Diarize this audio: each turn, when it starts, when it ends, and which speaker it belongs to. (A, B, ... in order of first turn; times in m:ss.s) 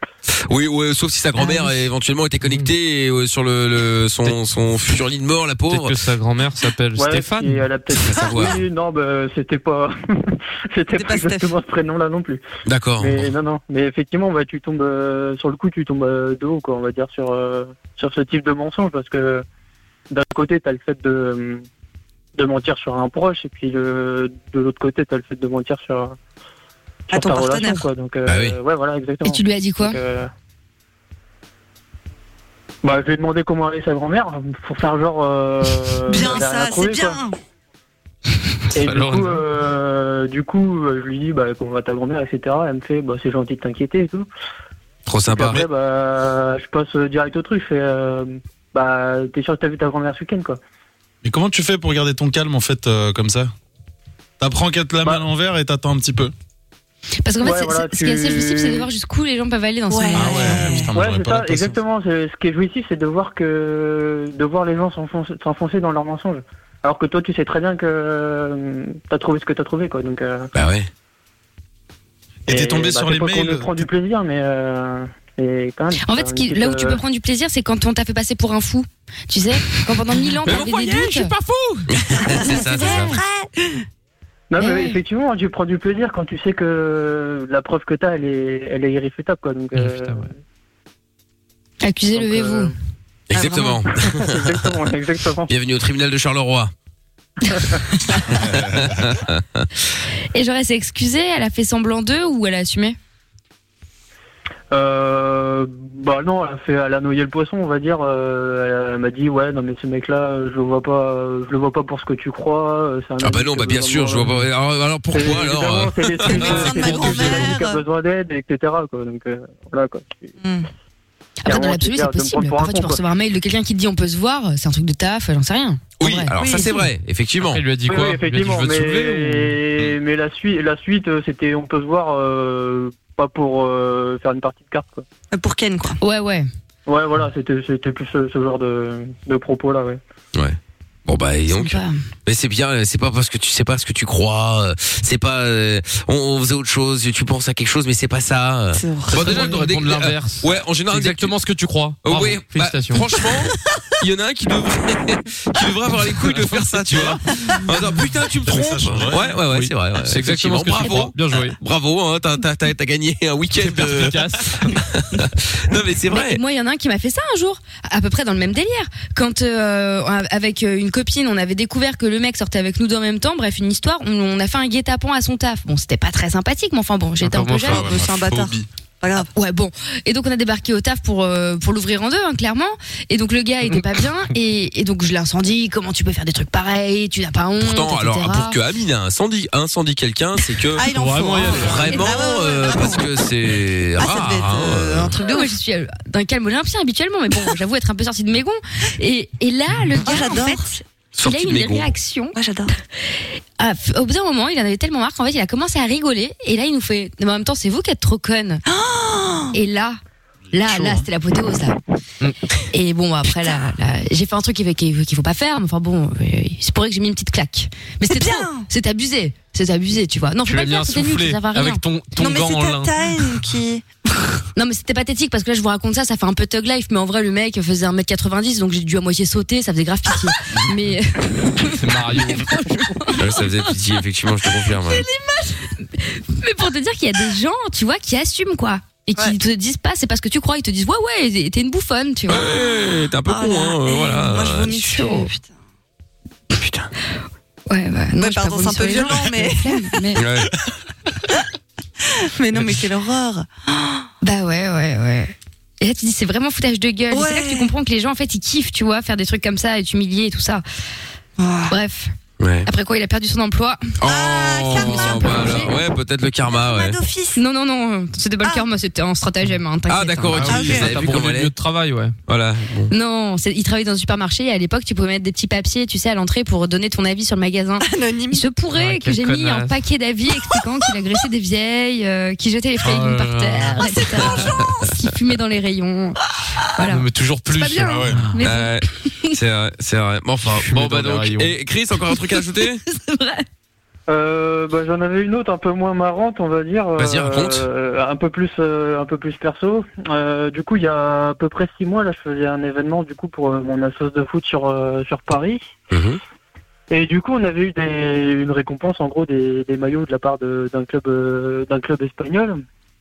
0:00.3-0:05.9 A
0:05.7-0:07.6 B
0:07.0-0:12.4 C
0:08.0-0:08.6 A
0:11.0-0:11.5 D
0:12.6-0:13.3 A
0:13.0-0:19.4 C
0:20.1-0:21.6 C
0:22.4-0:26.1 C
0:27.1-0:30.3 C
0:27.1-0:27.9 D
0:28.2-0:28.6 A
0:29.2-0:30.0 E
0:32.8-0:37.2 C
0:36.1-0:37.4 D
0:38.7-0:44.3 C
0:38.8-0:39.4 B
0:45.0-0:45.6 A
0:45.3-0:50.6 C
0:51.2-0:53.5 F
0:54.4-0:56.3 F
0:57.2-1:00.9 E
0:57.4-0:58.9 C
0:59.9-1:00.9 D
1:00.2-1:01.8 F
1:00.9-1:10.5 C
1:10.5-1:10.9 A
1:12.5-1:17.0 C
1:12.5-1:13.8 F
1:16.0-1:21.3 E
1:20.5-1:21.8 B
1:21.9-1:23.2 A
1:22.2-1:23.8 D
1:24.5-1:30.3 C
1:24.6-1:25.0 E
1:29.7-1:30.2 B
1:31.8-1:32.7 E
1:32.1-1:32.7 C
1:33.3-1:34.8 A
1:33.6-1:35.5 C
1:35.5-1:36.7 A
1:38.4-1:39.7 A
1:38.5-1:38.9 F
1:40.3-1:43.0 E
1:44.7-1:54.4 C
1:53.2-1:57.0 A
1:55.1-2:00.3 C
1:56.2-1:57.8 D
1:56.6-1:57.4 B
2:00.4-2:00.7 D
2:01.4-2:06.7 E
2:01.4-2:03.0 C
2:06.0-2:07.6 A
2:06.3-2:06.9 D
2:07.4-2:09.6 B
2:07.9-2:15.0 C
2:15.3-2:16.0 D
2:16.0-2:16.5 E
2:16.9-2:20.0 C
2:20.3-2:31.3 A
2:21.5-2:22.0 E
2:28.7-2:29.5 D
2:29.1-2:33.0 B
2:32.0-2:46.4 A
2:36.3-2:37.0 B
2:38.4-2:39.4 F
2:39.4-2:41.6 B
2:43.6-2:44.7 B
2:46.1-2:57.9 E
2:57.2-2:57.8 B
2:57.6-2:59.3 D
2:57.7-2:58.7 F
2:59.3-3:08.6 E
3:07.6-3:10.8 A
3:10.7-3:13.1 D
3:10.9-3:12.0 B
3:11.4-3:15.2 A
3:14.0-3:15.6 D
3:15.3-3:20.6 E
3:19.9-3:20.8 D
3:21.1-3:21.9 A
3:21.2-3:22.3 E
3:22.3-3:22.7 D
3:23.1-3:28.6 E
3:28.6-3:29.6 D
3:29.5-3:30.0 E
3:30.5-3:31.1 F
3:30.5-3:31.8 E
3:32.7-3:41.8 E
3:38.1-3:38.7 D
3:40.5-3:42.9 B
3:42.2-3:43.9 D
3:44.6-3:51.9 E
3:51.8-3:52.5 B
3:53.0-3:53.3 D
3:53.2-3:55.0 A
3:54.6-3:55.6 D
3:56.0-4:02.6 E
4:02.3-4:05.1 A
4:03.2-4:05.5 D
4:04.9-4:05.3 E
4:06.5-4:06.9 A
4:07.7-4:10.2 E
4:08.1-4:10.1 D
4:10.2-4:10.5 A
4:12.2-4:14.0 D
4:14.2-4:20.6 E
4:17.1-4:17.7 D
4:21.4-4:21.8 D
4:21.7-4:22.1 E
4:22.4-4:22.7 A
4:22.6-4:23.9 E
4:24.0-4:27.0 A
4:24.0-4:25.8 D
4:24.7-4:25.7 E
4:26.4-4:27.4 D
4:27.4-4:30.7 E
4:29.9-4:31.5 A
4:30.5-4:31.0 D
4:30.6-4:32.1 B
4:32.3-4:32.9 A
4:32.9-4:46.2 E
4:37.8-4:38.4 D
4:38.7-4:39.8 B
4:42.8-4:43.8 B
4:43.8-4:44.9 D
4:46.7-4:48.7 E
4:46.8-4:48.4 B
4:47.8-4:48.3 F
4:48.4-4:52.8 A
4:50.5-4:51.5 B
4:53.0-4:53.4 E
4:54.1-5:05.6 C
4:57.0-4:57.7 A
5:05.9-5:06.2 A
5:06.9-5:12.6 C